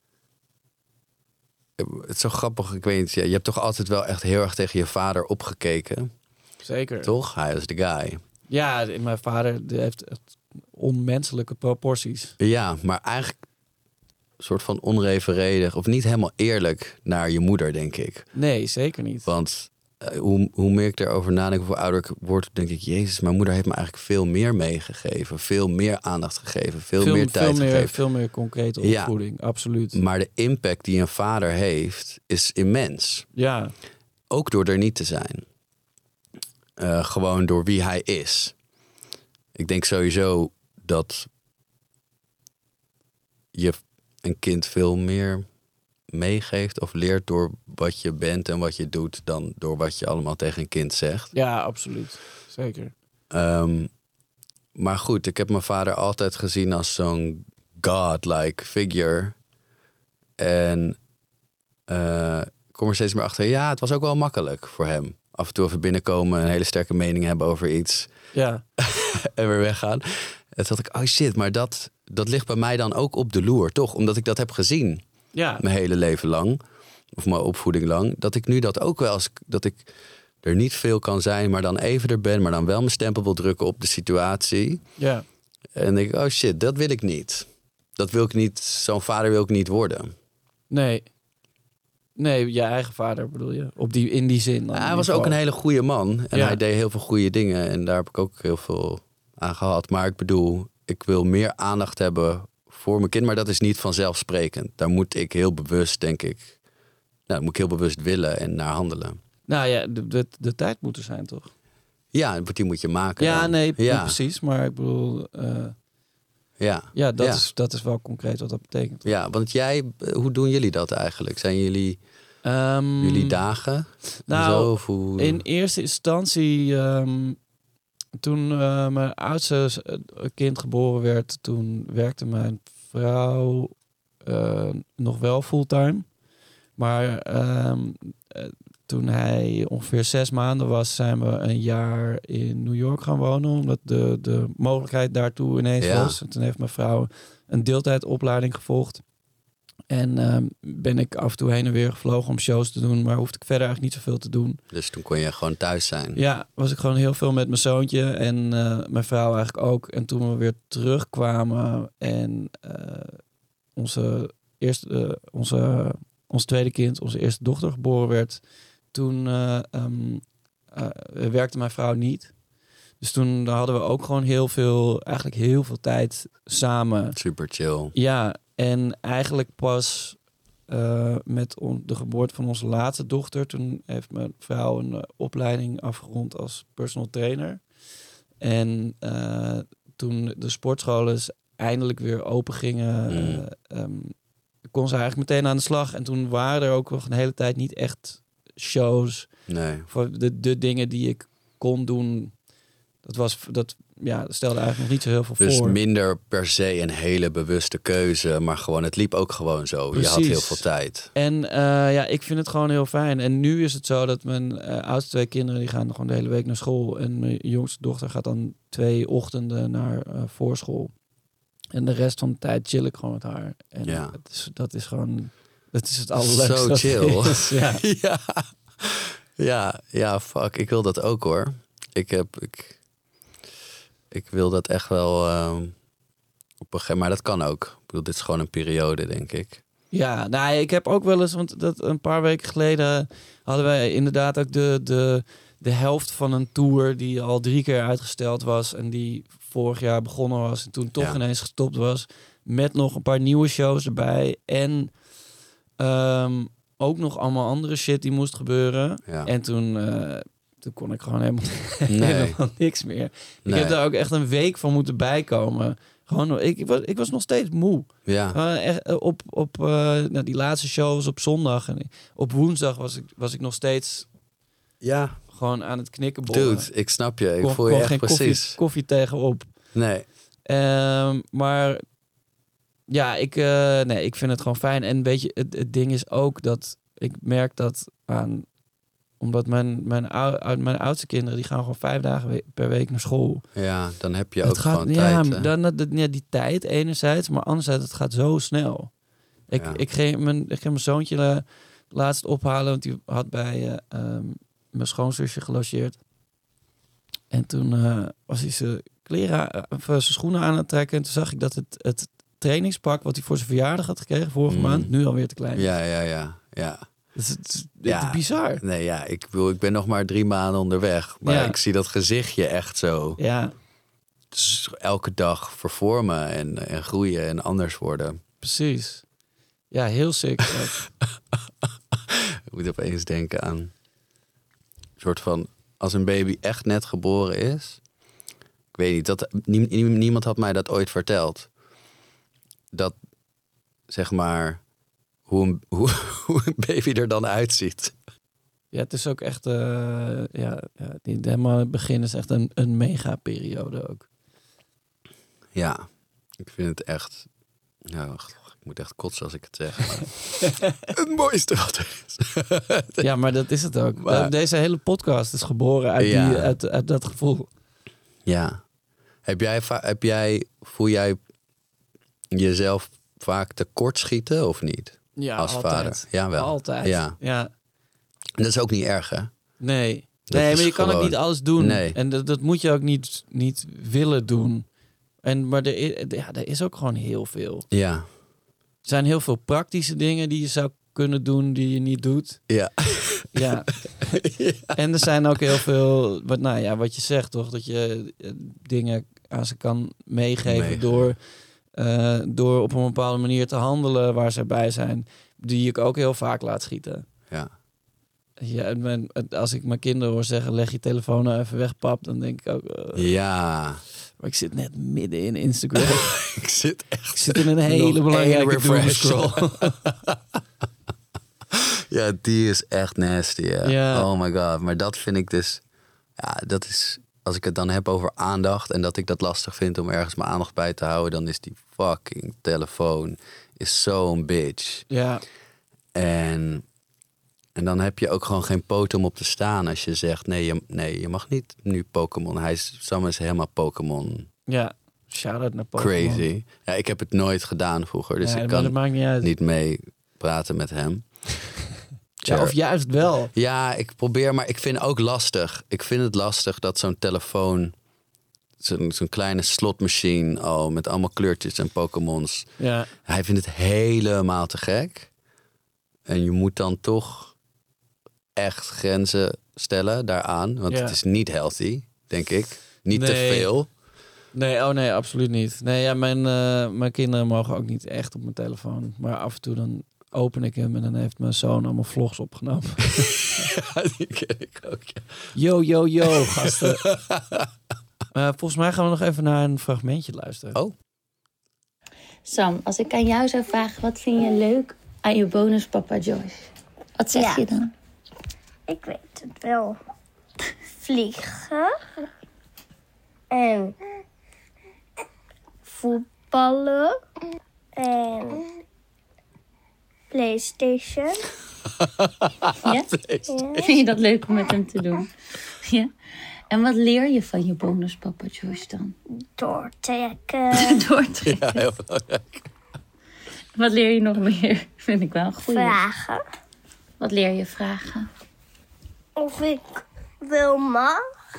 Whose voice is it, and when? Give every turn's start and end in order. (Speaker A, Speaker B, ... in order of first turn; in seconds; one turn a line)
Speaker A: 1.8-6.1
Speaker B: 6.6-7.1
Speaker A: 7.0-8.2
Speaker B: 8.5-12.3
Speaker A: 12.4-13.4
Speaker A: 14.4-18.3
Speaker B: 18.3-19.3
Speaker A: 19.2-28.0
Speaker B: 27.0-30.0
Speaker A: 28.8-29.1
Speaker A: 29.9-33.2
Speaker B: 33.3-33.7
Speaker A: 34.3-35.5
Speaker A: 36.8-38.5
Speaker A: 39.5-41.3
Speaker A: 43.5-45.5
Speaker A: 46.1-51.3
Speaker B: 51.3-52.9
Speaker A: 53.3-53.9
Speaker A: 54.7-59.4
Speaker A: 60.4-61.0
Speaker A: 61.9-68.1
Speaker B: 68.3-68.6
Speaker A: 68.8-75.0
Speaker B: 75.3-75.6
Speaker A: 75.6-76.6
Speaker A: 77.1-79.9
Speaker A: 80.4-84.8
Speaker B: 85.0-85.2
Speaker A: 85.7-90.1
Speaker B: 90.7-91.1
Speaker B: 92.2-95.4
Speaker A: 94.7-106.6
Speaker B: 96.3-96.6
Speaker A: 107.3-109.2
Speaker B: 109.5-111.5
Speaker A: 112.1-114.2
Speaker B: 113.2-115.7
Speaker A: 116.6-117.4
Speaker B: 116.9-119.1
Speaker A: 119.0-122.0
Speaker B: 122.4-123.4
Speaker A: 123.0-125.4
Speaker B: 124.2-127.4
Speaker B: 128.2-136.2
Speaker B: 136.8-149.0
Speaker A: 145.8-146.2
Speaker B: 149.9-154.6
Speaker A: 154.7-156.2
Speaker B: 156.1-163.2
Speaker B: 163.8-172.3
Speaker B: 173.0-177.2
Speaker A: 177.2-177.9
Speaker B: 177.9-187.6
Speaker B: 188.4-194.2
Speaker A: 193.1-193.4
Speaker B: 194.7-199.3
Speaker A: 199.5-199.9
Speaker B: 199.9-202.3
Speaker B: 203.0-205.8
Speaker A: 205.4-211.1
Speaker B: 209.9-220.9
Speaker B: 221.7-227.8
Speaker A: 223.8-224.2
Speaker A: 226.2-232.8
Speaker A: 234.1-235.7
Speaker A: 236.6-239.6
Speaker B: 239.9-255.0
Speaker B: 255.8-274.1
Speaker A: 259.0-259.3
Speaker A: 261.9-262.4
Speaker A: 263.4-263.8
Speaker A: 268.1-268.4
Speaker A: 274.8-275.2
Speaker B: 275.3-276.7
Speaker A: 276.3-278.6
Speaker B: 277.4-279.5
Speaker A: 279.7-280.1
Speaker B: 280.4-281.8
Speaker B: 282.9-288.6
Speaker B: 289.2-293.4
Speaker A: 293.5-295.5
Speaker B: 294.4-298.9
Speaker B: 299.5-306.0
Speaker A: 299.6-299.8
Speaker B: 307.3-315.7
Speaker A: 314.5-314.9
Speaker A: 315.5-316.9
Speaker B: 317.1-318.6
Speaker A: 317.8-323.2
Speaker B: 321.2-321.6
Speaker B: 323.2-323.5
Speaker A: 324.3-328.2
Speaker B: 328.4-329.0
Speaker B: 329.7-330.8
Speaker A: 331.9-333.7
Speaker A: 335.0-337.8
Speaker A: 338.7-341.5
Speaker A: 343.9-344.6
Speaker A: 345.2-348.0
Speaker B: 348.7-354.1
Speaker A: 355.5-355.9
Speaker A: 356.4-357.3
Speaker A: 357.9-360.4
Speaker B: 360.4-360.8
Speaker A: 360.9-363.1
Speaker B: 363.0-367.5
Speaker A: 364.0-364.3
Speaker A: 366.0-366.5
Speaker A: 368.2-368.6
Speaker A: 369.2-371.2
Speaker A: 372.3-377.2
Speaker B: 375.1-377.5
Speaker A: 378.4-379.3
Speaker B: 379.6-384.6
Speaker A: 380.3-382.0
Speaker B: 385.2-387.6
Speaker A: 387.7-388.1
Speaker B: 388.8-392.5
Speaker A: 392.5-393.4
Speaker B: 393.3-394.2
Speaker A: 394.1-394.8
Speaker B: 394.7-407.1
Speaker A: 400.4-401.1
Speaker B: 408.4-413.1
Speaker A: 412.9-413.8
Speaker B: 414.2-416.1
Speaker A: 415.8-420.4
Speaker B: 417.1-419.8
Speaker A: 421.5-425.6
Speaker B: 423.6-424.1
Speaker A: 426.2-434.9
Speaker B: 434.9-435.2
Speaker A: 435.9-436.6
Speaker A: 437.5-444.3
Speaker B: 444.5-446.3
Speaker A: 445.8-451.1
Speaker B: 448.2-449.3
Speaker A: 452.2-452.6
Speaker B: 452.2-453.3
Speaker A: 453.3-457.7
Speaker A: 458.6-462.5
Speaker B: 462.6-462.9
Speaker A: 463.0-465.1
Speaker A: 466.1-467.3
Speaker A: 468.3-473.7
Speaker B: 470.7-471.0
Speaker B: 472.9-473.5
Speaker B: 474.3-483.5
Speaker A: 483.1-485.3
Speaker B: 485.3-486.8
Speaker A: 486.0-487.5
Speaker B: 488.1-490.6
Speaker C: 492.2-497.7
Speaker D: 497.1-497.4
Speaker D: 498.7-499.8
Speaker D: 500.8-501.8
Speaker D: 503.3-503.8
Speaker D: 505.6-507.0
Speaker D: 507.8-508.4
Speaker D: 510.1-511.3
Speaker A: 511.8-513.7
Speaker C: 512.6-513.0
Speaker D: 513.3-513.6
Speaker C: 513.6-515.9
Speaker C: 516.5-518.9
Speaker D: 519.4-520.8
Speaker C: 520.5-521.6
Speaker A: 521.2-522.5
Speaker C: 523.5-525.8
Speaker D: 525.5-526.2
Speaker C: 527.0-528.1
Speaker D: 529.2-529.6
Speaker D: 530.2-531.0